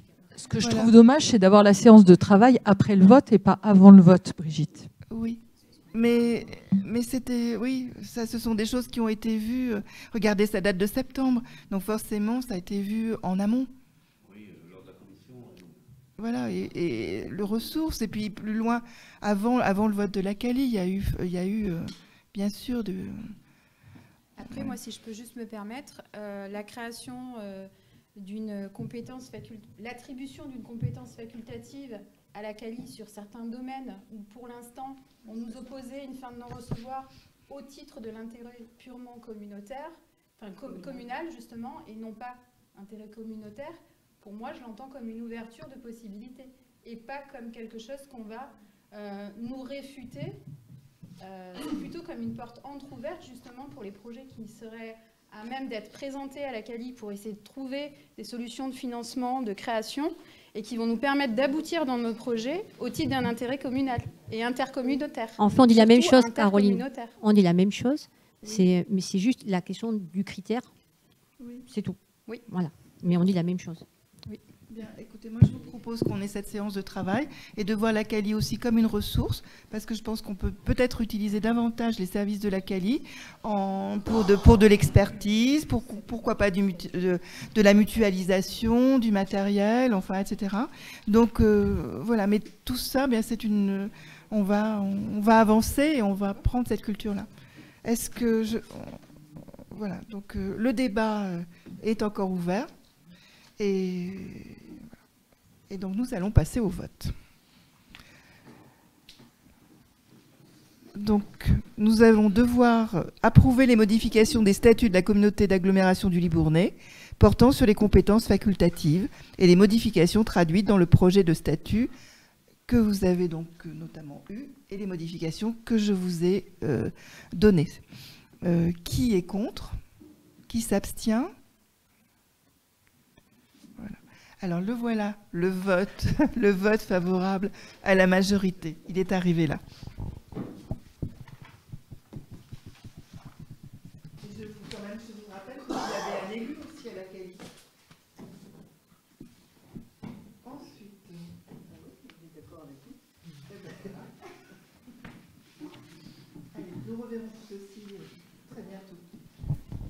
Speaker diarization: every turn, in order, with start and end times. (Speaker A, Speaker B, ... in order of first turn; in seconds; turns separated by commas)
Speaker A: 0.4-4.9, Speaker B: 0.6-0.9, Speaker B: 5.1-13.7, Speaker B: 16.2-23.3, Speaker C: 24.4-50.4, Speaker B: 24.5-24.8, Speaker C: 51.2-67.2, Speaker D: 65.4-70.7, Speaker D: 71.7-73.8, Speaker B: 74.7-97.3, Speaker B: 97.8-99.0, Speaker B: 99.7-102.7, Speaker B: 103.6-104.8, Speaker B: 105.7-107.1, Speaker B: 111.0-121.9, Speaker B: 122.7-127.8, Speaker B: 128.4-129.8, Speaker B: 130.5-131.3, Speaker B: 133.8-139.6, Speaker B: 144.2-147.6, Speaker B: 150.4-152.9, Speaker B: 153.5-154.1, Speaker B: 156.5-159.0